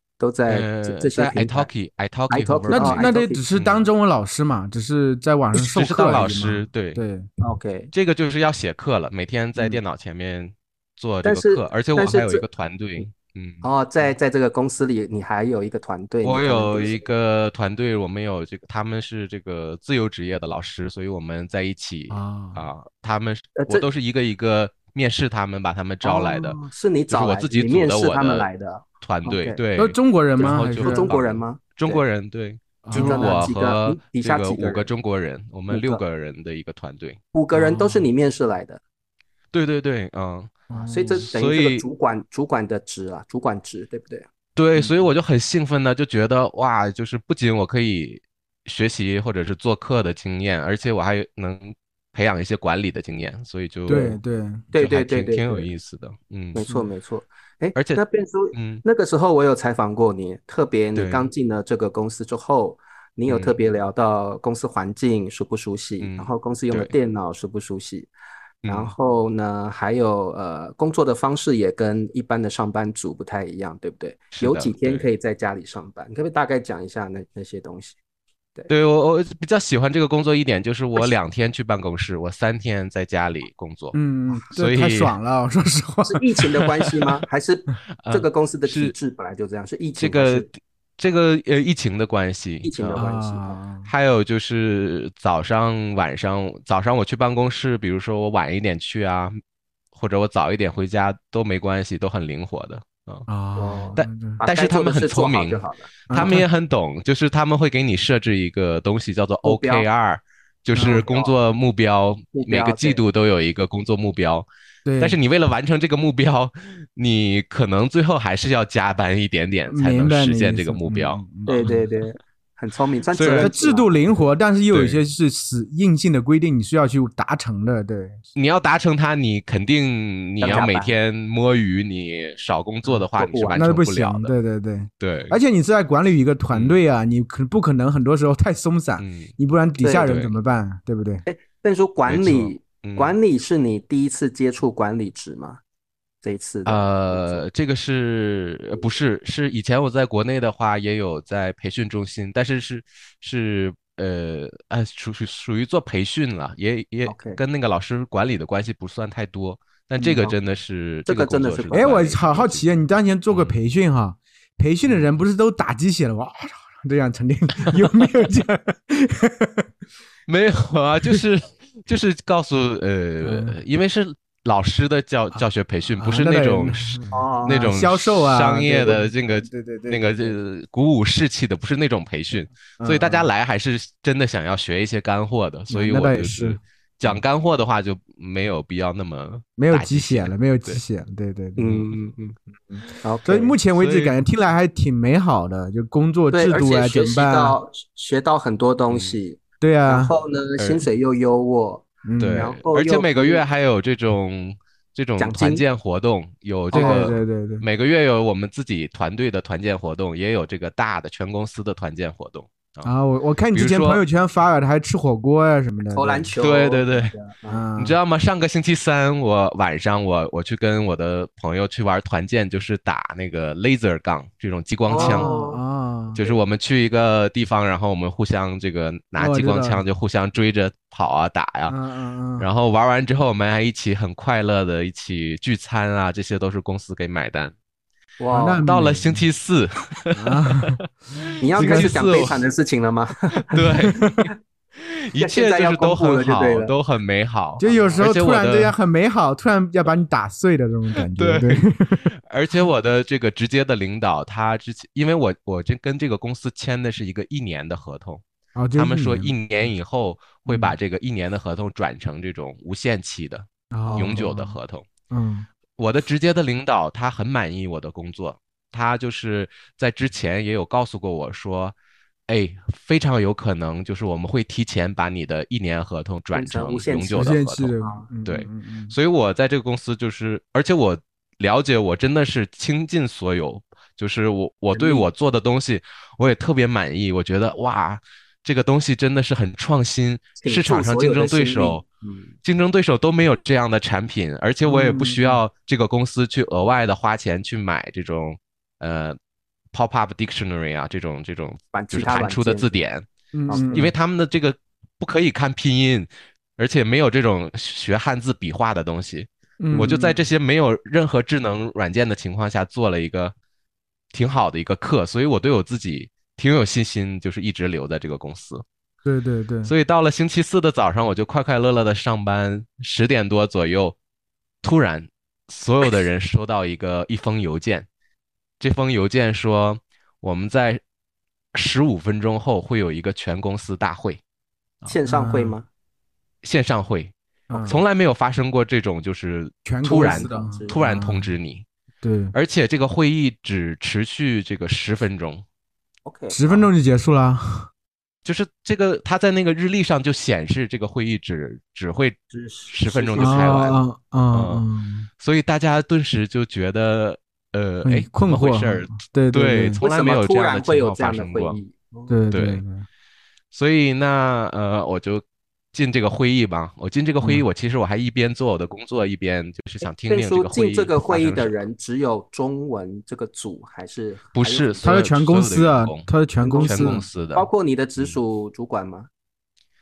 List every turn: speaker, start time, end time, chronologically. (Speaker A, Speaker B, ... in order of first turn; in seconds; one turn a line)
Speaker A: 0.2-1.7
Speaker B: 0.5-3.9
Speaker A: 2.3-3.4
Speaker C: 2.7-7.3
Speaker B: 5.5-7.0
Speaker A: 7.4-7.9
Speaker B: 7.9-13.7
Speaker A: 11.2-12.4
Speaker A: 13.6-17.0
Speaker B: 16.2-28.5
Speaker C: 22.1-22.6
Speaker A: 23.6-23.9
Speaker A: 26.0-29.6
Speaker B: 29.0-37.2
Speaker C: 29.8-31.1
Speaker A: 30.4-32.0
Speaker C: 32.8-33.3
Speaker A: 32.9-34.9
Speaker A: 35.7-36.0
Speaker A: 37.3-38.8
Speaker C: 37.5-38.1
Speaker B: 39.5-40.5
Speaker C: 40.7-41.3
Speaker A: 40.9-44.3
Speaker B: 41.1-41.9
Speaker B: 44.6-54.2
Speaker C: 53.9-54.7
Speaker A: 54.7-55.7
Speaker B: 54.8-56.6
Speaker A: 56.5-68.1
Speaker B: 57.8-58.0
Speaker B: 58.5-58.8
Speaker B: 61.0-61.3
Speaker B: 63.3-63.6
Speaker B: 66.0-66.9
Speaker B: 68.6-68.9
Speaker A: 68.7-78.0
Speaker B: 74.3-75.1
Speaker B: 78.7-84.0
Speaker C: 83.9-86.2
Speaker B: 84.5-85.2
Speaker A: 86.1-90.5
Speaker B: 86.6-87.0
Speaker B: 88.0-88.9
Speaker B: 90.0-93.0
Speaker A: 92.6-93.6
Speaker C: 93.0-93.9
Speaker B: 93.8-99.4
Speaker B: 100.0-103.3
Speaker C: 103.3-104.4
Speaker A: 103.6-105.9
Speaker B: 104.0-114.5
Speaker C: 106.1-106.4
Speaker A: 109.4-109.9
Speaker A: 110.8-111.3
Speaker A: 112.3-113.0
Speaker C: 114.8-115.2
Speaker B: 115.0-121.8
Speaker C: 119.7-121.8
Speaker A: 121.5-124.2
Speaker B: 123.1-123.5
Speaker C: 123.4-128.2
Speaker B: 124.7-125.0
Speaker B: 128.3-134.3
Speaker A: 130.4-130.9
Speaker A: 133.1-133.7
Speaker C: 133.6-141.2
Speaker B: 135.0-135.4
Speaker B: 136.5-136.8
Speaker B: 139.0-139.3
Speaker A: 139.8-140.2
Speaker B: 140.0-140.3
Speaker A: 141.3-145.6
Speaker B: 142.1-143.2
Speaker A: 146.2-147.4
Speaker B: 146.7-162.7
Speaker A: 157.1-157.4
Speaker A: 161.1-162.1
Speaker C: 161.7-169.7
Speaker B: 163.3-163.6
Speaker B: 170.3-190.8
Speaker C: 173.2-173.6
Speaker C: 176.0-180.4
Speaker A: 177.1-177.7
Speaker C: 182.8-183.3
Speaker C: 185.7-187.2
Speaker C: 189.6-191.7
Speaker A: 191.6-192.4
Speaker C: 192.7-197.6
Speaker A: 193.0-193.6
Speaker B: 193.7-194.2
Speaker A: 196.3-203.4
Speaker B: 198.9-199.2
Speaker C: 199.6-200.1
Speaker B: 200.6-200.8
Speaker C: 202.1-202.5
Speaker B: 202.2-212.9
Speaker A: 205.2-205.6
Speaker A: 206.7-207.1
Speaker C: 206.7-207.7
Speaker C: 212.8-216.3
Speaker B: 213.5-214.0
Speaker A: 215.9-217.7
Speaker B: 216.4-217.1
Speaker C: 217.5-218.0
Speaker B: 217.8-225.3
Speaker A: 224.9-225.6
Speaker C: 225.0-226.2
Speaker A: 226.2-226.4
Speaker B: 226.2-231.8
Speaker C: 229.2-229.8
Speaker C: 231.7-232.5
Speaker B: 232.4-237.6
Speaker A: 238.2-238.6
Speaker C: 238.3-239.2
Speaker B: 238.6-242.4
Speaker C: 240.1-240.8
Speaker A: 241.4-243.6
Speaker C: 241.6-242.0
Speaker B: 243.3-248.8
Speaker C: 243.9-244.3
Speaker A: 245.2-246.7
Speaker A: 247.6-248.1
Speaker C: 247.6-252.1
Speaker B: 251.1-258.2
Speaker C: 258.6-259.3
Speaker B: 258.7-264.9
Speaker C: 260.5-260.8
Speaker C: 263.7-264.6
Speaker A: 263.9-264.2
Speaker C: 265.1-265.5
Speaker B: 265.8-271.8
Speaker B: 272.3-277.7
Speaker A: 276.3-278.1
Speaker C: 277.1-278.9
Speaker B: 278.2-291.8
Speaker A: 284.7-285.1
Speaker A: 290.4-292.3
Speaker B: 292.4-299.2
Speaker C: 294.6-295.4
Speaker B: 299.7-303.1
Speaker A: 301.7-302.8
Speaker C: 303.3-303.9
Speaker A: 303.5-303.9
Speaker B: 303.7-313.4
Speaker C: 309.6-310.2
Speaker B: 314.1-318.6
Speaker C: 319.1-319.7
Speaker B: 319.6-324.0
Speaker B: 324.6-327.9
Speaker B: 328.6-330.8
Speaker B: 331.6-334.2
Speaker A: 334.9-335.7
Speaker C: 335.1-335.6
Speaker B: 336.4-337.1
Speaker A: 337.5-337.8
Speaker C: 337.5-337.8
Speaker B: 337.7-341.7
Speaker C: 339.6-341.3
Speaker A: 339.8-340.8
Speaker C: 342.0-342.4
Speaker B: 342.3-345.4
Speaker A: 346.1-346.7
Speaker C: 346.3-347.7
Speaker B: 348.2-352.2
Speaker A: 352.3-353.8
Speaker B: 352.7-353.8
Speaker C: 353.2-355.1
Speaker B: 354.3-354.6
Speaker B: 355.2-361.6
Speaker C: 357.9-359.8
Speaker A: 359.8-362.2
Speaker C: 362.1-362.9
Speaker B: 362.3-362.6
Speaker B: 363.5-371.6
Speaker A: 369.9-374.9
Speaker B: 374.3-378.2
Speaker C: 374.8-377.0
Speaker A: 376.4-379.1